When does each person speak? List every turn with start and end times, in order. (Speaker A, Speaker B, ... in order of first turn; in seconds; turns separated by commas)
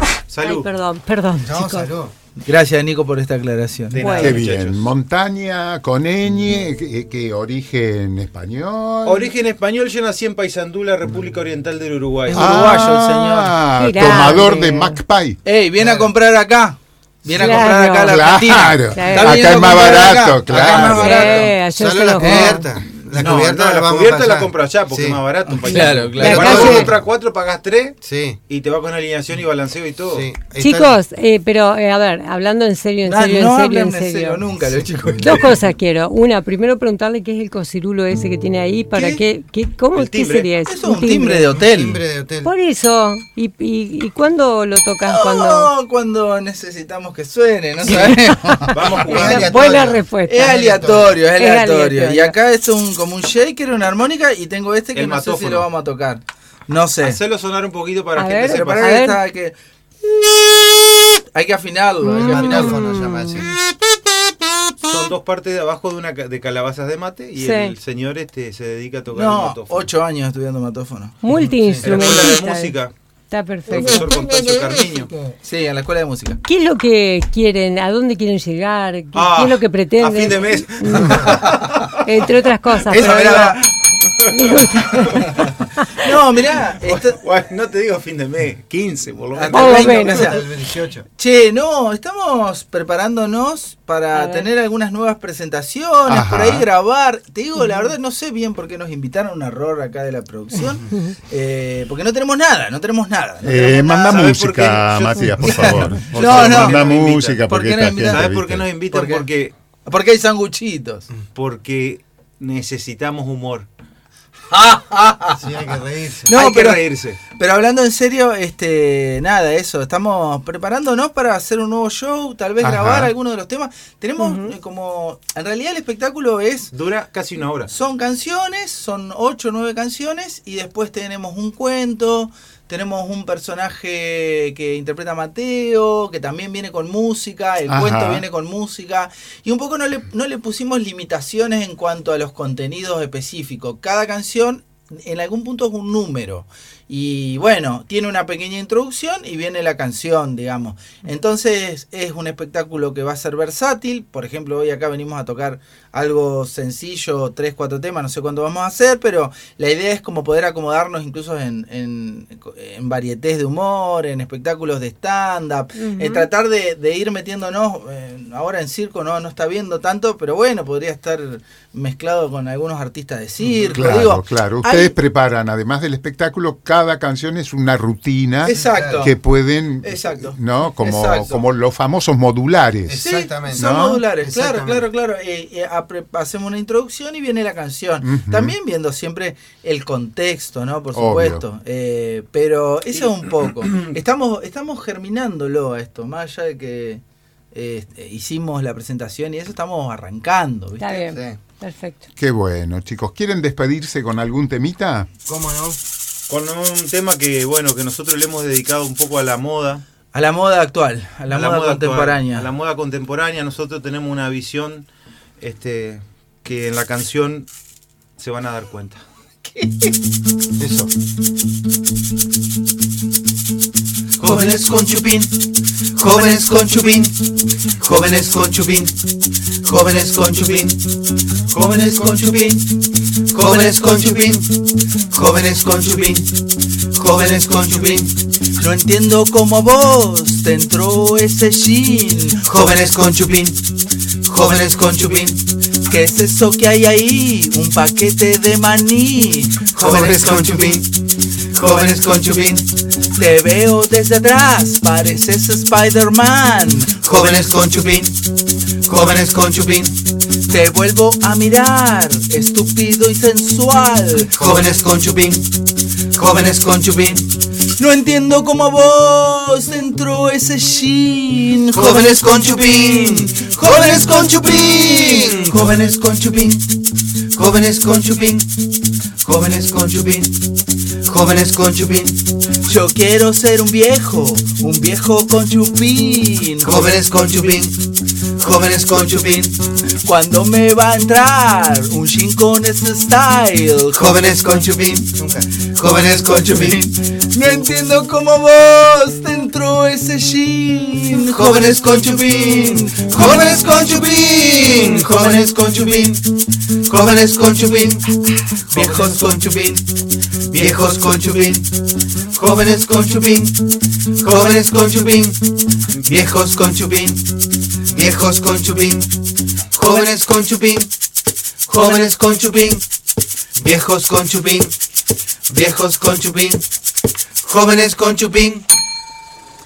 Speaker A: 0.3-0.7, Speaker B: 0.4-1.9, Speaker C: 1.4-2.1, Speaker D: 2.4-4.4, Speaker A: 3.9-4.9, Speaker B: 4.0-4.4, Speaker E: 4.2-9.3, Speaker A: 9.0-12.8, Speaker D: 12.3-14.4, Speaker E: 12.3-15.4, Speaker B: 13.8-15.0, Speaker D: 15.4-21.5, Speaker C: 15.8-16.1, Speaker B: 17.3-18.2, Speaker E: 18.1-20.9, Speaker B: 18.9-19.9, Speaker A: 19.1-21.2, Speaker C: 20.5-25.2, Speaker B: 20.7-22.6, Speaker D: 22.2-22.6, Speaker A: 23.1-30.3, Speaker D: 25.5-26.8, Speaker B: 25.6-26.9, Speaker C: 26.2-26.9, Speaker C: 28.0-28.4, Speaker C: 30.1-31.0, Speaker B: 30.5-34.4, Speaker D: 33.0-35.6, Speaker B: 35.2-41.5, Speaker D: 38.9-39.2, Speaker A: 40.0-40.5, Speaker D: 40.6-42.0, Speaker C: 41.5-42.5, Speaker B: 42.4-45.7, Speaker D: 45.0-48.8, Speaker B: 47.9-50.5, Speaker A: 48.7-49.8, Speaker C: 49.0-51.2, Speaker D: 50.2-57.2, Speaker B: 51.4-52.4, Speaker A: 54.9-55.7, Speaker A: 57.0-59.0, Speaker B: 58.1-59.2, Speaker D: 58.5-59.5, Speaker D: 61.3-62.8, Speaker B: 62.0-63.4, Speaker C: 62.2-63.5, Speaker A: 64.8-69.9, Speaker B: 67.3-67.8, Speaker D: 69.1-71.2, Speaker B: 71.2-72.8, Speaker C: 71.3-71.9, Speaker A: 71.8-72.9, Speaker B: 73.3-74.1, Speaker A: 73.7-75.1, Speaker D: 75.4-76.4, Speaker B: 76.4-83.5, Speaker A: 79.1-82.3, Speaker C: 80.9-81.2, Speaker D: 82.8-83.7, Speaker A: 83.0-83.5, Speaker A: 84.0-85.5, Speaker B: 84.2-85.3, Speaker D: 86.0-87.2, Speaker A: 86.8-90.3, Speaker D: 89.3-90.4, Speaker B: 89.5-90.3, Speaker C: 89.5-91.1, Speaker D: 91.2-104.2, Speaker B: 94.1-94.5, Speaker E: 96.1-96.6, Speaker B: 97.6-97.9, Speaker E: 103.5-108.7, Speaker A: 104.0-107.4, Speaker D: 105.4-106.9, Speaker D: 107.4-109.3, Speaker A: 108.0-109.5, Speaker D: 109.9-111.1, Speaker A: 111.3-113.7, Speaker D: 114.5-115.5, Speaker C: 115.4-116.3, Speaker D: 116.2-126.7, Speaker A: 116.3-117.2, Speaker E: 122.6-123.1, Speaker B: 124.2-124.5, Speaker A: 126.7-127.7, Speaker D: 127.7-175.0, Speaker E: 137.7-138.2, Speaker B: 165.8-166.3, Speaker E: 173.7-183.0, Speaker D: 178.4-179.2, Speaker C: 178.6-179.1, Speaker D: 179.8-181.5, Speaker C: 182.9-184.9, Speaker D: 183.0-197.0, Speaker E: 183.6-184.0, Speaker E: 188.0-188.5, Speaker E: 190.9-191.4, Speaker D: 197.5-201.1, Speaker B: 200.8-202.1, Speaker C: 201.1-201.4, Speaker E: 202.2-205.1, Speaker C: 205.3-205.8, Speaker A: 206.3-209.8, Speaker D: 210.1-212.5, Speaker A: 211.3-214.9, Speaker A: 215.4-217.5, Speaker A: 218.2-219.0, Speaker C: 220.6-220.9, Speaker C: 224.2-225.3, Speaker C: 225.9-227.1, Speaker C: 227.8-228.9, Speaker C: 229.6-230.8, Speaker C: 231.5-232.7, Speaker C: 233.3-234.6, Speaker C: 235.1-236.3, Speaker C: 236.9-238.1, Speaker D: 238.6-242.4, Speaker C: 242.4-243.6, Speaker C: 244.2-245.4, Speaker D: 245.9-250.8, Speaker C: 249.8-250.9, Speaker C: 251.5-252.7, Speaker D: 253.2-257.0, Speaker C: 257.0-258.2, Speaker C: 258.9-260.0, Speaker D: 260.5-264.5, Speaker C: 264.4-265.5, Speaker C: 266.1-267.3, Speaker D: 267.8-275.5, Speaker C: 271.7-276.7, Speaker C: 277.3-278.5, Speaker C: 279.2-280.4, Speaker C: 281.1-282.2, Speaker D: 282.6-286.9, Speaker C: 286.6-287.8, Speaker C: 288.4-289.6, Speaker D: 290.0-294.2, Speaker C: 294.0-296.9, Speaker D: 296.2-303.5, Speaker C: 301.3-306.2, Speaker C: 306.9-308.1, Speaker D: 308.7-309.5, Speaker C: 308.7-309.8, Speaker A: 308.7-309.0, Speaker A: 310.5-310.8, Speaker C: 310.5-311.7, Speaker C: 312.4-313.6, Speaker C: 314.2-315.4, Speaker A: 315.9-316.2, Speaker C: 316.0-317.2, Speaker C: 317.9-319.1, Speaker C: 319.7-320.9, Speaker C: 321.7-322.8, Speaker C: 323.6-324.7, Speaker C: 325.5-326.6, Speaker C: 327.4-328.7